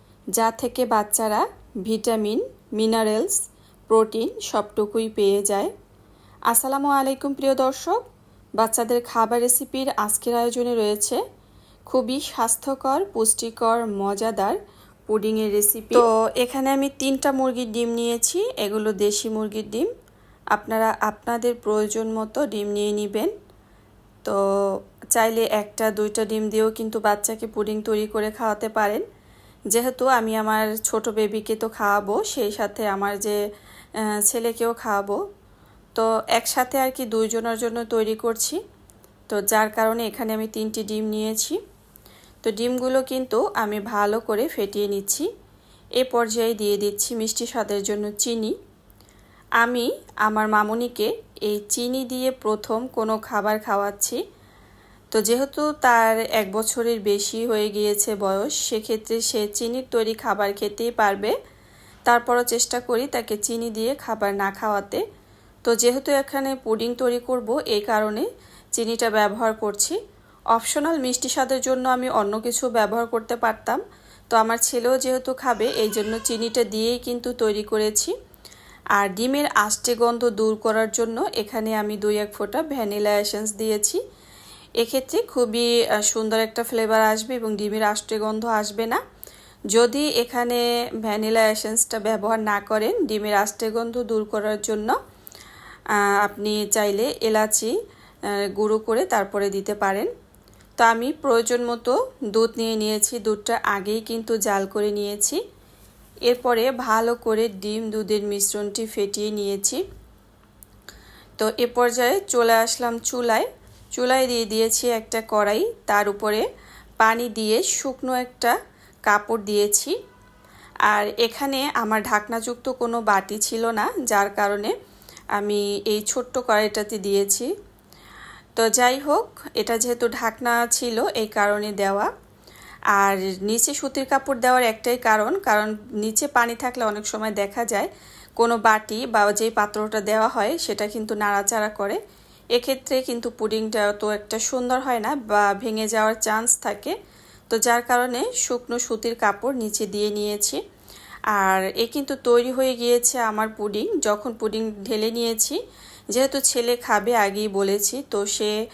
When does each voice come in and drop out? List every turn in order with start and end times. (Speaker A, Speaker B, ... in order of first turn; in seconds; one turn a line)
Speaker A: 0.4-5.7
Speaker A: 6.5-8.0
Speaker A: 8.6-11.2
Speaker A: 11.9-14.6
Speaker A: 15.1-19.9
Speaker A: 20.5-23.3
Speaker A: 25.1-29.0
Speaker A: 29.7-33.4
Speaker A: 34.1-35.2
Speaker A: 36.0-38.6
Speaker A: 39.3-41.6
Speaker A: 42.4-45.3
Speaker A: 46.0-48.6
Speaker A: 49.6-54.2
Speaker A: 55.1-61.4
Speaker A: 62.1-65.0
Speaker A: 65.7-70.0
Speaker A: 70.5-78.1
Speaker A: 79.0-84.0
Speaker A: 84.8-89.0
Speaker A: 89.7-95.0
Speaker A: 96.0-97.7
Speaker A: 98.4-100.1
Speaker A: 100.8-105.4
Speaker A: 106.3-109.8
Speaker A: 111.4-116.5
Speaker A: 117.0-118.6
Speaker A: 119.1-120.0
Speaker A: 120.9-124.7
Speaker A: 125.3-127.5
Speaker A: 128.6-132.1
Speaker A: 132.9-142.0
Speaker A: 142.6-147.0
Speaker A: 147.5-150.6
Speaker A: 151.3-155.6
Speaker A: 156.1-158.6